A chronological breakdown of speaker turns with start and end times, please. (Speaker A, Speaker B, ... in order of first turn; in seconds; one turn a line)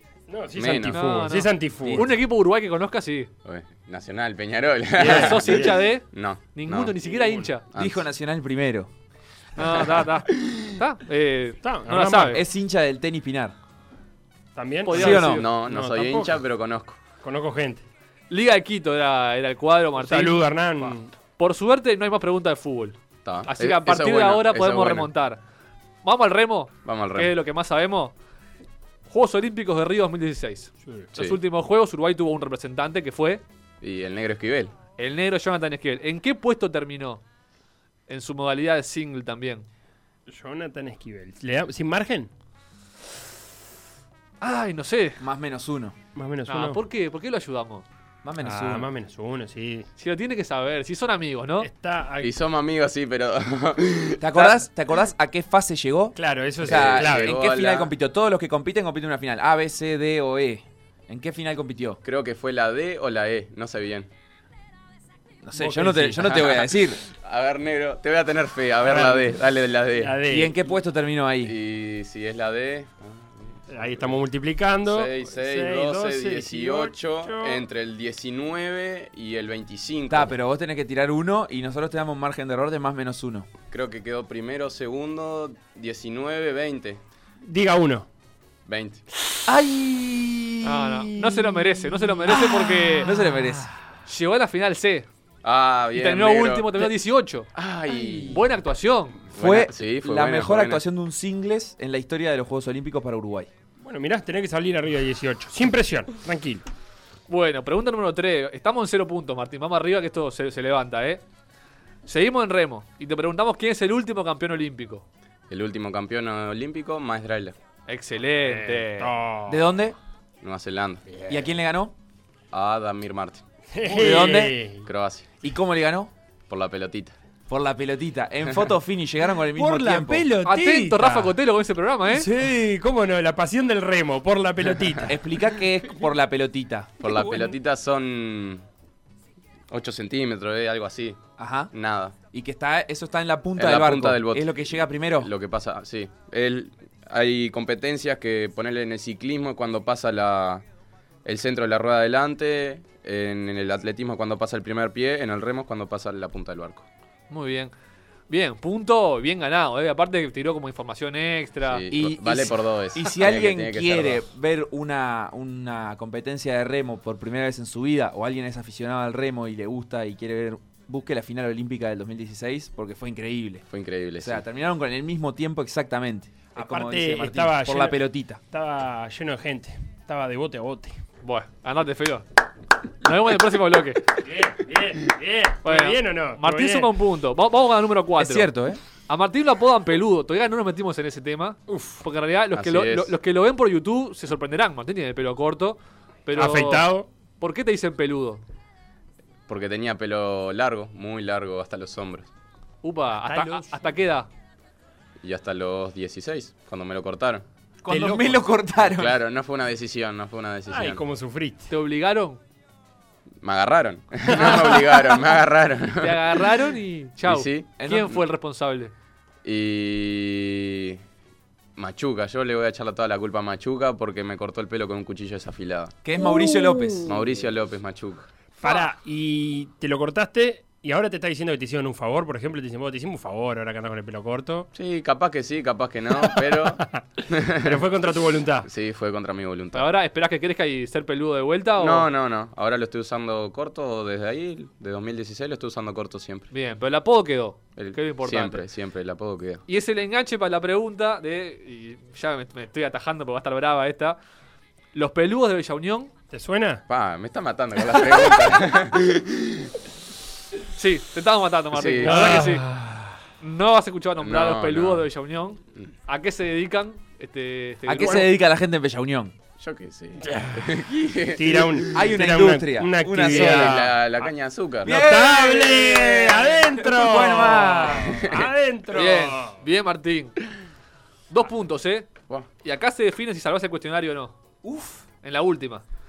Speaker A: 0.3-2.1
Speaker B: 0.6-1.1
Speaker C: 0.9-3.3
Speaker D: 1.8-2.1
Speaker B: 3.5-7.0
Speaker A: 5.0-5.8
Speaker C: 5.0-7.7
Speaker A: 7.1-7.5
Speaker B: 7.7-8.0
Speaker D: 7.8-8.9
Speaker C: 9.6-12.4
Speaker B: 9.6-10.7
Speaker A: 11.6-12.4
Speaker D: 12.3-13.5
Speaker A: 14.6-16.4
Speaker C: 14.8-15.4
Speaker D: 14.9-15.5
Speaker B: 15.0-17.0
Speaker A: 17.2-17.9
Speaker C: 18.3-25.4
Speaker A: 20.0-21.1
Speaker B: 23.2-25.1
Speaker C: 26.0-28.1
Speaker B: 26.9-27.3
Speaker C: 29.1-33.4
Speaker B: 33.8-34.7
Speaker C: 35.0-37.2
Speaker C: 38.1-39.7
Speaker A: 40.3-42.3
Speaker C: 44.4-45.2
Speaker D: 45.2-46.0
Speaker A: 46.1-46.8
Speaker C: 46.5-47.9
Speaker D: 48.2-48.9
Speaker A: 48.4-49.9
Speaker C: 50.0-51.7
Speaker A: 51.6-52.3
Speaker B: 52.2-54.7
Speaker D: 54.2-62.0
Speaker A: 56.2-57.3
Speaker B: 56.6-57.9
Speaker B: 62.0-64.1
Speaker D: 65.4-67.0
Speaker A: 65.6-66.2
Speaker B: 66.2-70.2
Speaker A: 68.8-69.3
Speaker A: 70.0-70.5
Speaker D: 70.2-71.6
Speaker B: 71.4-74.2
Speaker A: 73.7-77.7
Speaker B: 74.8-80.3
Speaker D: 80.1-83.5
Speaker B: 83.7-87.0
Speaker A: 87.4-88.1
Speaker B: 88.7-89.0
Speaker D: 89.5-91.1
Speaker C: 90.6-93.1
Speaker A: 92.3-93.1
Speaker D: 92.3-93.7
Speaker C: 94.1-95.1
Speaker B: 95.4-96.9
Speaker C: 95.9-97.5
Speaker B: 97.5-98.5
Speaker C: 98.2-99.2
Speaker B: 99.3-100.8
Speaker D: 99.3-103.5
Speaker A: 103.8-106.7
Speaker C: 107.3-111.2
Speaker C: 112.1-115.0
Speaker B: 115.5-117.5
Speaker C: 117.9-119.1
Speaker A: 118.4-119.7
Speaker D: 119.5-120.0
Speaker B: 120.4-121.0
Speaker A: 121.1-121.4
Speaker D: 121.3-121.9
Speaker B: 122.5-123.4
Speaker A: 123.7-124.9
Speaker D: 123.9-124.6
Speaker B: 124.8-125.3
Speaker D: 125.4-126.1
Speaker B: 126.5-127.2
Speaker D: 127.5-130.3
Speaker A: 129.5-131.3
Speaker C: 130.4-132.3
Speaker D: 132.1-132.7
Speaker A: 132.2-135.2
Speaker D: 135.1-137.0
Speaker B: 137.0-138.6
Speaker A: 137.0-137.5
Speaker B: 139.7-141.2
Speaker D: 141.4-141.7
Speaker B: 141.7-142.2
Speaker D: 142.3-145.3
Speaker B: 143.6-150.6
Speaker B: 151.2-156.9
Speaker C: 157.3-157.7
Speaker C: 158.3-161.8
Speaker B: 161.7-164.2
Speaker D: 161.9-173.7
Speaker B: 173.7-174.4
Speaker D: 174.2-178.4
Speaker A: 176.6-181.0
Speaker C: 181.2-182.3
Speaker C: 183.0-184.1
Speaker A: 184.2-186.9
Speaker C: 185.6-188.5
Speaker D: 188.2-188.8
Speaker C: 189.1-198.4
Speaker A: 191.7-192.0
Speaker B: 192.5-193.1
Speaker A: 196.3-197.1
Speaker B: 199.5-202.3
Speaker C: 202.8-204.3
Speaker A: 203.2-203.7
Speaker B: 205.2-207.5
Speaker D: 207.8-209.2
Speaker A: 207.9-208.4
Speaker B: 208.8-211.0
Speaker A: 210.7-211.7
Speaker C: 211.7-212.4
Speaker B: 213.4-216.4
Speaker A: 214.3-214.8
Speaker C: 216.0-218.9
Speaker B: 217.2-217.8
Speaker D: 217.8-218.2
Speaker B: 219.4-221.0
Speaker B: 221.8-225.9
Speaker D: 226.0-227.3
Speaker B: 227.1-228.3
Speaker A: 228.6-234.7
Speaker B: 234.8-237.9
Speaker A: 236.2-236.8
Speaker A: 237.6-238.7
Speaker B: 238.6-239.9
Speaker C: 239.7-242.1
Speaker B: 241.8-246.5
Speaker C: 246.5-248.6
Speaker B: 247.8-249.6
Speaker C: 249.7-254.2
Speaker C: 254.9-256.1
Speaker A: 256.3-256.8
Speaker B: 256.9-259.7
Speaker C: 260.8-262.6
Speaker B: 261.7-262.5
Speaker A: 262.0-263.2
Speaker C: 263.4-268.3
Speaker B: 264.2-265.1
Speaker D: 267.9-269.4
Speaker B: 269.6-272.1
Speaker A: 270.3-270.5
Speaker A: 271.4-273.9
Speaker D: 271.9-273.9
Speaker B: 273.2-275.0
Speaker D: 274.8-278.2
Speaker A: 274.8-279.6
Speaker B: 278.0-278.5
Speaker C: 278.9-280.4
Speaker C: 281.3-282.1
Speaker C: 282.6-284.4
Speaker D: 284.6-285.0
Speaker C: 285.2-285.8